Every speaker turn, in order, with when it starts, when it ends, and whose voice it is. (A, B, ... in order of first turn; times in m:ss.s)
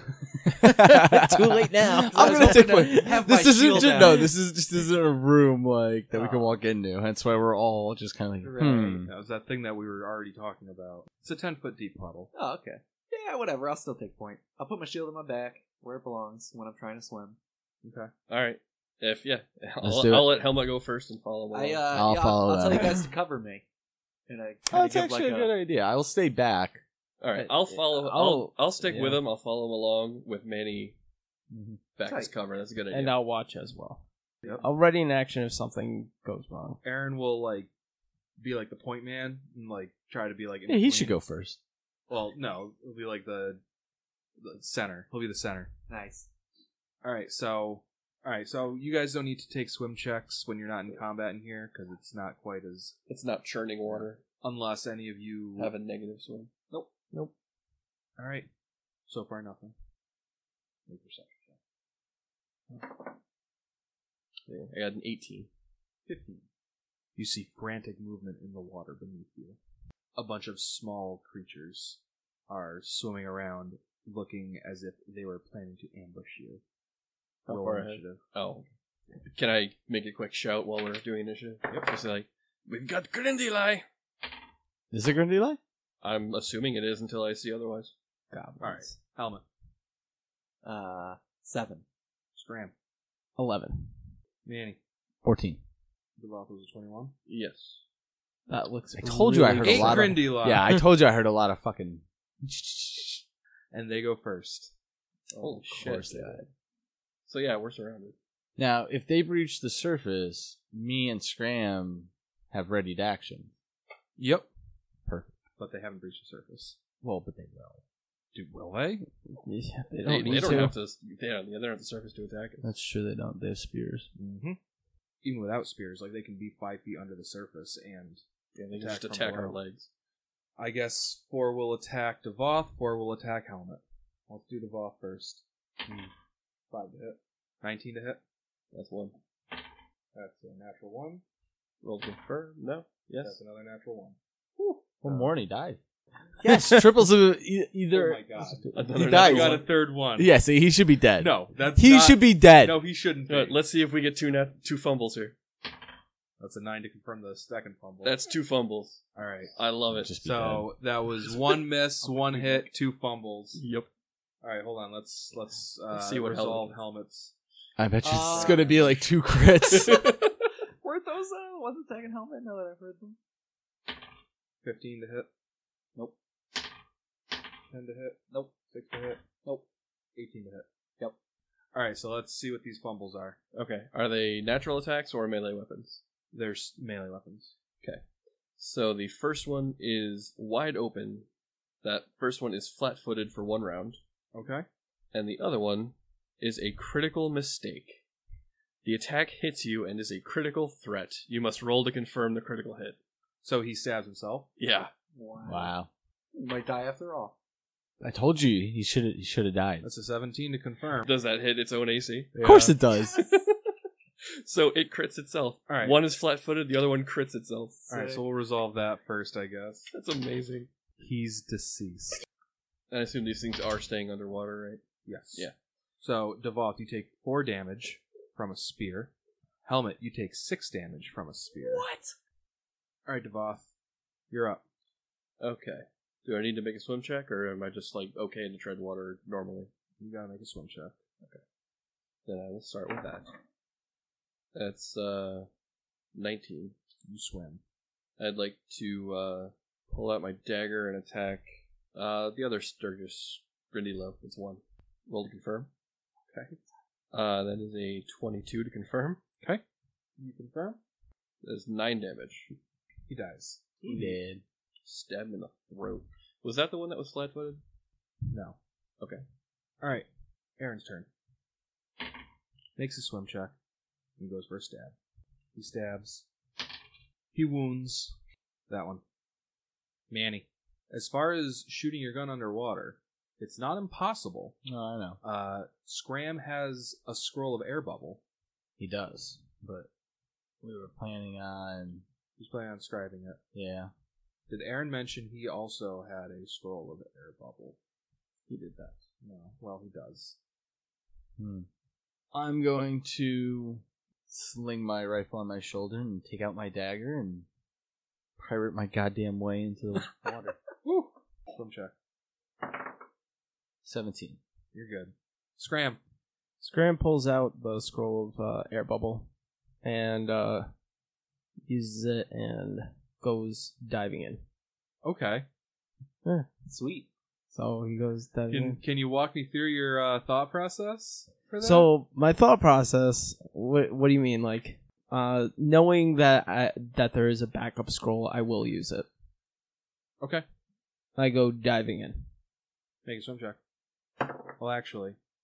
0:00.4-0:09.1 A
0:00.6-0:04.3 B
0:02.1-0:04.3 C
0:06.1-0:06.5 C
0:08.4-0:09.1 C
0:09.0-0:12.3 D
0:12.3-0:17.4 C
0:17.8-0:18.1 D
0:18.3-0:21.9 E
0:19.8-0:20.4 A
0:21.5-0:23.6 C
0:21.9-0:23.0 A
0:24.3-0:25.5 C
0:24.7-0:26.8 A
0:27.2-0:31.0 E
0:27.3-0:29.2 B
0:31.5-0:31.8 A
0:32.0-0:33.2 E
0:32.0-0:32.3 C
0:32.9-0:34.0 B
0:34.6-0:36.8 B
0:36.8-0:37.7 D
0:38.4-0:41.2 D
0:40.7-0:41.6 A
0:42.1-0:43.6 D
0:44.4-0:45.7 D
0:45.9-0:46.3 C
0:47.0-0:52.9 D
0:53.1-0:54.2 E
0:53.9-0:55.7 D
0:55.6-0:56.5 E
0:58.2-0:58.5 D
0:59.1-0:59.7 D
1:00.9-1:01.6 D
1:04.5-1:05.5 E
1:06.0-1:06.4 C
1:07.2-1:09.6 D
1:10.1-1:16.6 D
1:17.4-1:23.8 E
1:17.5-1:18.2 D
1:24.9-1:25.6 A
1:26.0-1:27.9 E
1:28.3-1:29.0 B
1:28.6-1:29.4 D
1:30.6-1:31.8 C
1:32.3-1:32.7 D
1:33.4-1:33.9 B
1:34.4-1:34.8 D
1:35.2-1:35.6 A
1:36.2-1:37.1 D
1:37.2-1:37.8 E
1:38.5-1:40.2 B
1:38.9-1:43.2 A
1:39.6-1:40.8 D
1:43.7-1:44.7 D
1:45.4-1:46.4 E
1:45.4-1:46.4 A
1:47.3-1:48.1 E
1:48.6-1:53.5 A
1:54.2-1:54.5 D
1:55.0-1:55.4 A
1:55.6-1:56.8 D
1:57.0-1:57.8 A
1:58.3-1:59.1 D
1:59.3-2:00.7 B
2:00.0-2:02.6 E
2:00.2-2:00.7 A
2:02.6-2:04.0 A
2:04.1-2:04.6 D
2:05.2-2:08.2 D
2:08.5-2:09.9 E
2:08.8-2:09.6 D
2:10.6-2:15.4 D
2:16.7-2:18.2 D
2:18.7-2:19.1 E
2:20.1-2:21.2 D
2:21.8-2:23.4 E
2:23.2-2:24.2 D
2:25.0-2:25.8 A
2:26.4-2:29.6 A
2:26.4-2:26.9 B
2:27.9-2:30.3 D
2:28.7-2:29.7 E
2:30.2-2:32.8 A
2:31.2-2:33.6 D
2:33.3-2:35.4 E
2:36.4-2:38.2 D
2:38.0-2:40.1 E
2:39.1-2:39.5 D
2:39.9-2:40.7 A
2:40.2-2:43.6 D
2:42.0-2:42.6 C
2:43.5-2:43.9 E
2:44.4-2:47.3 D
2:45.9-2:46.8 E
2:47.8-2:50.1 A
2:48.0-2:48.8 C
2:48.3-2:49.0 D
2:49.7-2:50.5 E
2:50.8-2:53.2 C
2:54.6-2:55.3 D
2:57.7-2:59.2 D
3:00.1-3:00.6 D
3:01.7-3:03.4 D
3:03.5-3:06.0 E
3:06.3-3:07.5 D
3:08.6-3:11.2 E
3:11.8-3:14.0 E
3:14.3-3:14.6 D
3:15.1-3:18.0 E
3:18.8-3:23.0 E
3:23.4-3:24.5 D
3:24.6-3:24.9 E
3:25.1-3:25.7 C
3:25.4-3:25.9 A
3:26.3-3:27.3 C
3:28.0-3:29.9 A
3:29.8-3:31.1 D
3:31.0-3:32.3 E
3:32.3-3:33.2 A
3:32.4-3:32.8 D
3:33.1-3:33.6 E
3:34.3-3:37.9 E
3:35.7-3:36.0 D
3:37.9-3:38.2 C
3:37.9-3:39.9 D
3:39.9-3:40.7 E
3:41.0-3:42.2 D
3:42.9-3:44.8 E
3:45.0-3:45.5 D
3:46.0-3:49.1 D
3:49.6-3:51.9 D
3:53.0-3:53.7 D
3:54.3-3:54.6 D
3:55.4-3:59.7 E
4:00.0-4:00.9 D
4:02.2-4:03.3 E
4:04.5-4:05.5 E
4:06.1-4:06.7 E
4:07.0-4:07.6 D
4:08.2-4:15.7 E
4:16.3-4:16.6 D
4:17.1-4:19.2 E
4:20.2-4:20.8 D
4:21.4-4:22.5 E
4:23.1-4:23.7 D
4:23.8-4:24.4 A
4:24.8-4:27.6 E
4:28.3-4:28.6 D
4:29.8-4:30.1 D
4:30.6-4:31.1 D
4:32.8-4:33.5 D
4:34.2-4:34.9 D
4:35.5-4:36.2 D
4:37.3-4:38.1 D
4:38.7-4:39.0 D
4:40.1-4:44.6 D
4:44.6-4:45.2 A
4:45.2-4:48.2 D
4:48.8-4:49.9 A
4:50.6-4:52.0 A
4:52.4-4:53.4 D
4:53.5-4:53.9 A
4:54.5-4:57.8 D
4:58.5-4:58.9 E
4:59.2-5:00.4 D
5:01.4-5:01.7 A
5:02.3-5:07.4 A
5:08.4-5:10.6 A
5:10.8-5:11.9 D
5:13.8-5:14.4 A
5:14.7-5:16.0 D
5:16.6-5:19.3 B
5:19.8-5:20.7 B
5:21.6-5:24.4 B
5:25.0-5:25.4 D
5:26.6-5:27.1 C
5:27.5-5:28.8 B
5:28.5-5:31.9 D
5:31.6-5:39.1 B
5:40.2-5:40.4 D
5:41.2-5:42.3 B
5:43.0-5:43.6 D
5:44.6-5:45.2 D